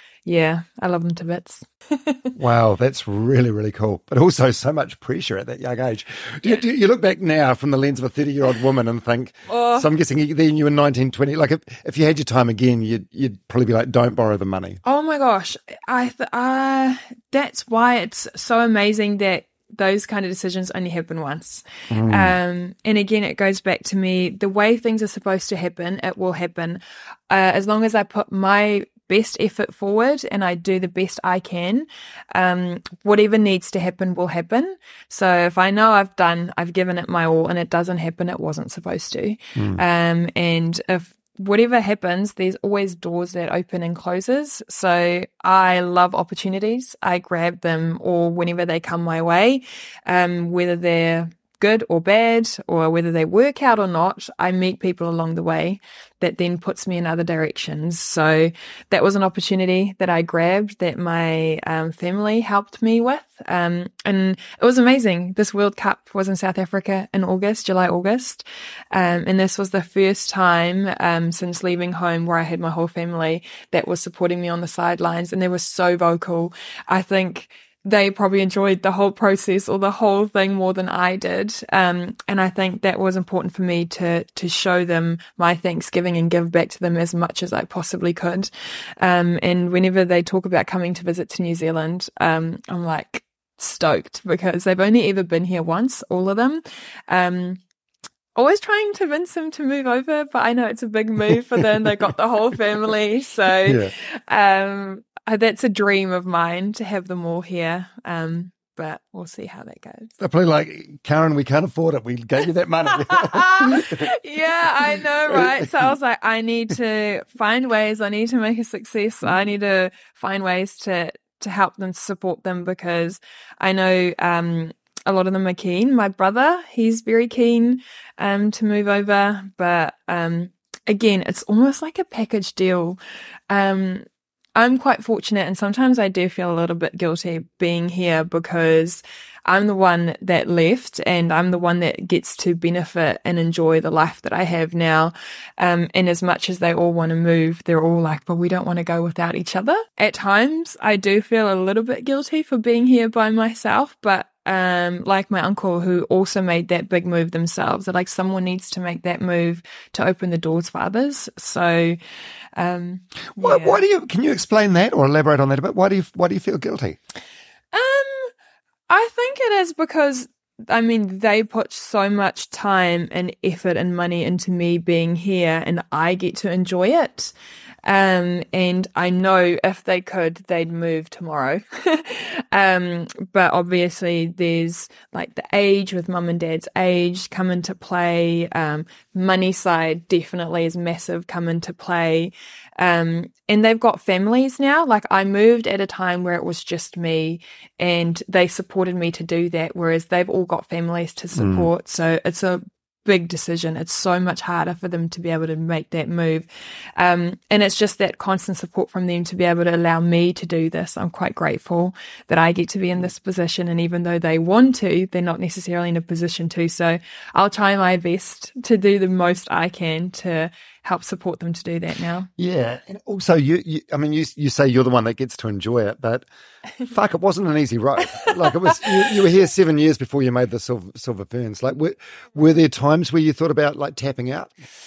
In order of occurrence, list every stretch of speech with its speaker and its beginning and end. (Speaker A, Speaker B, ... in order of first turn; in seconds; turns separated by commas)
Speaker A: 0.3-2.3, Speaker B: 2.4-14.8, Speaker A: 9.5-9.9, Speaker A: 14.8-97.6, Speaker B: 21.9-22.3, Speaker A: 98.4-110.1, Speaker B: 103.7-103.9, Speaker B: 110.2-114.1, Speaker A: 112.9-133.0, Speaker B: 115.3-115.7, Speaker A: 133.5-162.0, Speaker A: 162.6-163.8, Speaker B: 163.4-167.0, Speaker A: 167.7-168.3, Speaker A: 168.9-177.3, Speaker A: 177.8-206.5, Speaker B: 201.4-201.7, Speaker A: 207.0-222.3, Speaker B: 222.4-226.3, Speaker B: 226.9-234.5, Speaker A: 228.2-229.2